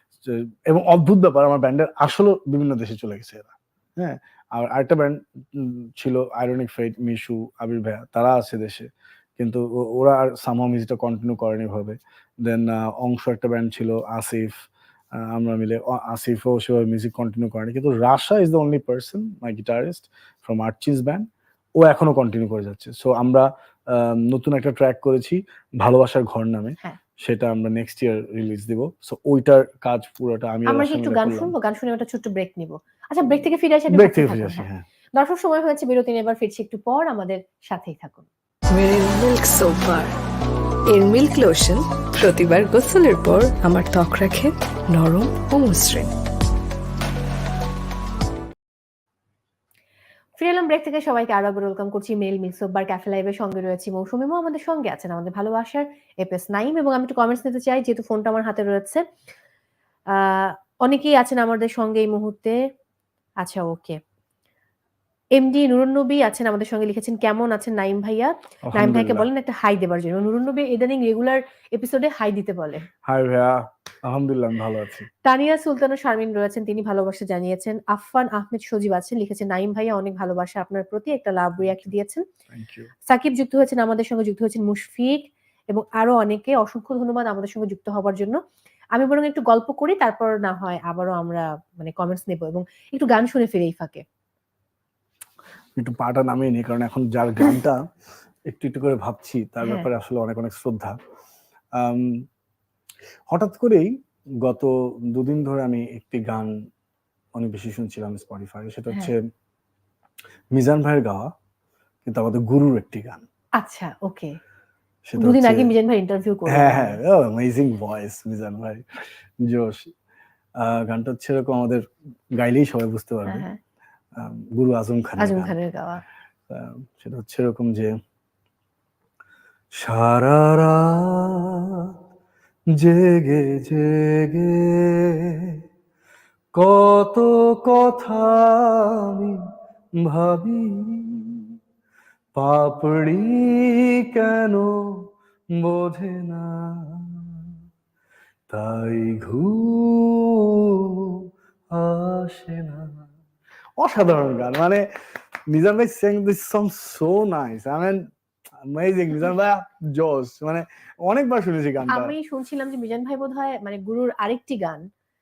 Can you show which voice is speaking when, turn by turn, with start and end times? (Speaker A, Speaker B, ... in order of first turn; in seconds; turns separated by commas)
Speaker A: 0.2-8.9, Speaker A: 9.4-14.5, Speaker A: 15.2-21.2, Speaker A: 21.8-31.5, Speaker B: 30.6-38.3, Speaker A: 33.9-34.8, Speaker C: 38.7-40.1, Speaker C: 40.9-46.1, Speaker B: 50.4-59.0, Speaker B: 60.1-62.5, Speaker B: 63.4-64.0, Speaker B: 65.3-72.8, Speaker A: 68.7-69.3, Speaker A: 73.1-75.1, Speaker B: 75.2-82.2, Speaker A: 81.6-81.9, Speaker A: 82.5-82.9, Speaker B: 83.0-88.4, Speaker B: 88.9-94.0, Speaker A: 95.8-97.8, Speaker A: 98.5-100.9, Speaker B: 99.6-99.9, Speaker A: 101.8-102.1, Speaker A: 103.3-103.9, Speaker A: 104.4-106.5, Speaker A: 107.3-109.2, Speaker A: 110.5-111.3, Speaker A: 112.0-113.2, Speaker B: 113.6-114.3, Speaker A: 115.1-115.7, Speaker B: 115.2-117.0, Speaker A: 116.5-119.9, Speaker A: 120.6-121.8, Speaker A: 122.4-123.5, Speaker B: 123.2-123.6, Speaker A: 124.2-125.5, Speaker B: 125.2-126.0, Speaker A: 126.5-127.9, Speaker A: 129.8-131.9, Speaker A: 132.8-135.6, Speaker A: 136.5-139.4, Speaker A: 140.0-141.5, Speaker A: 142.3-145.1, Speaker A: 145.6-147.5, Speaker A: 148.5-153.0, Speaker A: 153.8-154.9, Speaker A: 155.5-158.1, Speaker A: 158.7-162.1, Speaker B: 161.9-164.8